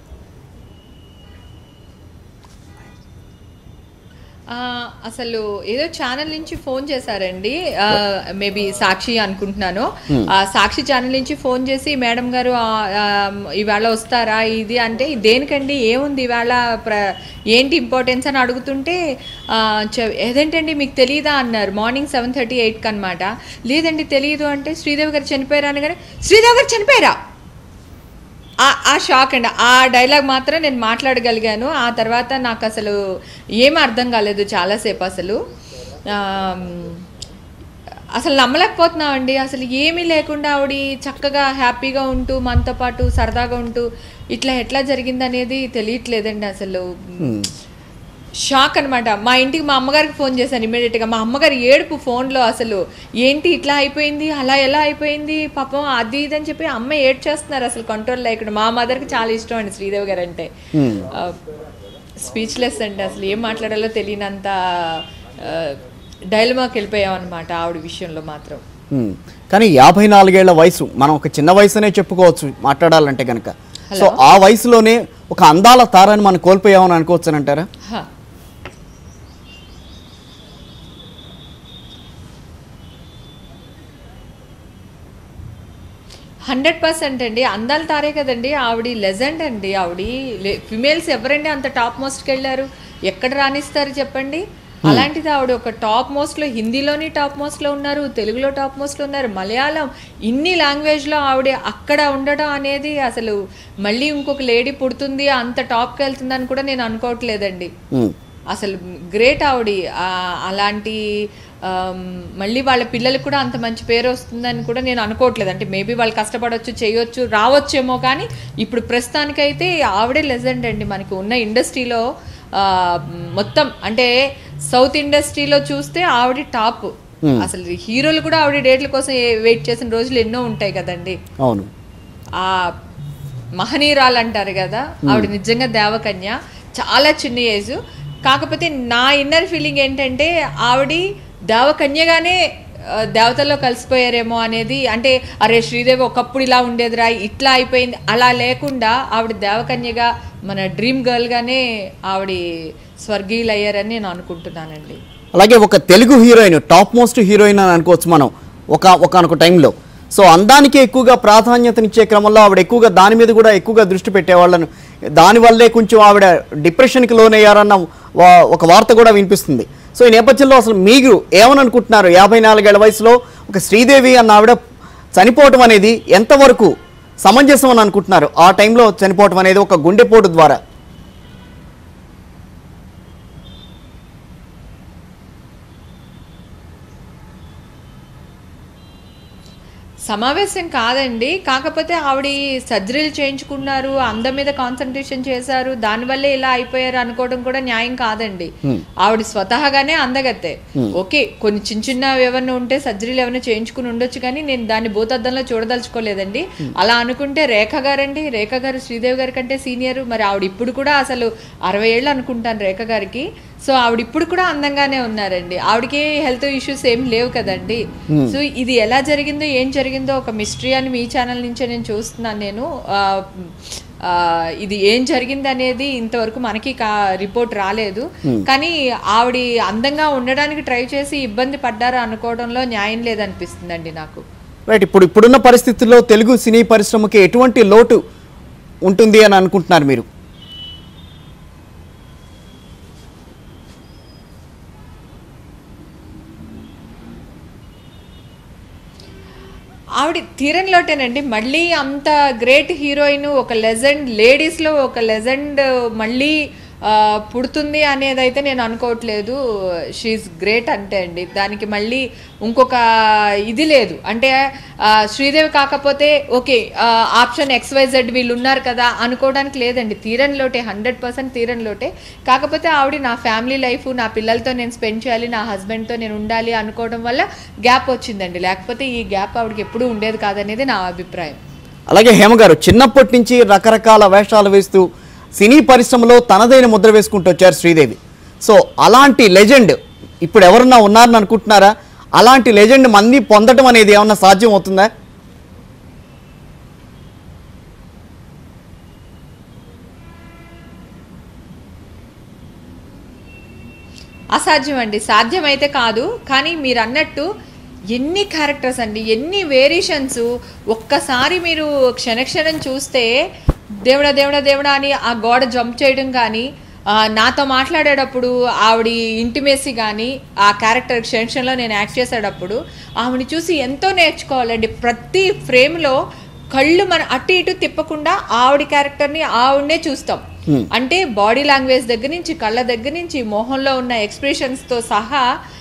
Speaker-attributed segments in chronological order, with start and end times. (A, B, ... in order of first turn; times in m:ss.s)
0:04.5-0:19.0 A
0:19.5-0:27.2 A
0:28.6-0:33.0 A
0:33.6-0:35.4 A
0:36.0-0:37.0 A
0:38.2-0:47.4 A
0:47.2-0:47.5 B
0:48.5-1:01.4 A
1:00.8-1:01.1 B
1:02.2-1:05.8 A
1:06.3-1:08.6 A
1:08.9-1:17.7 B
1:13.9-1:14.2 A
1:26.5-1:47.7 A
1:48.5-1:51.0 A
1:51.6-2:04.1 A
2:04.7-2:11.2 A
2:11.4-2:11.7 B
2:12.4-2:12.7 A
2:13.6-2:22.4 A
2:22.9-2:32.4 A
2:33.0-2:35.0 A
2:35.4-2:54.6 B
2:55.1-2:56.7 B
2:57.2-3:00.6 B
3:10.1-3:54.2 A
3:54.7-3:58.0 B
3:58.9-4:00.1 B
4:10.0-4:19.4 A
4:20.0-4:41.4 A
4:41.9-4:44.8 B
4:45.4-4:54.9 B
5:04.4-5:07.3 A
5:07.9-5:13.1 A
5:13.8-5:26.0 A
5:26.6-5:35.2 A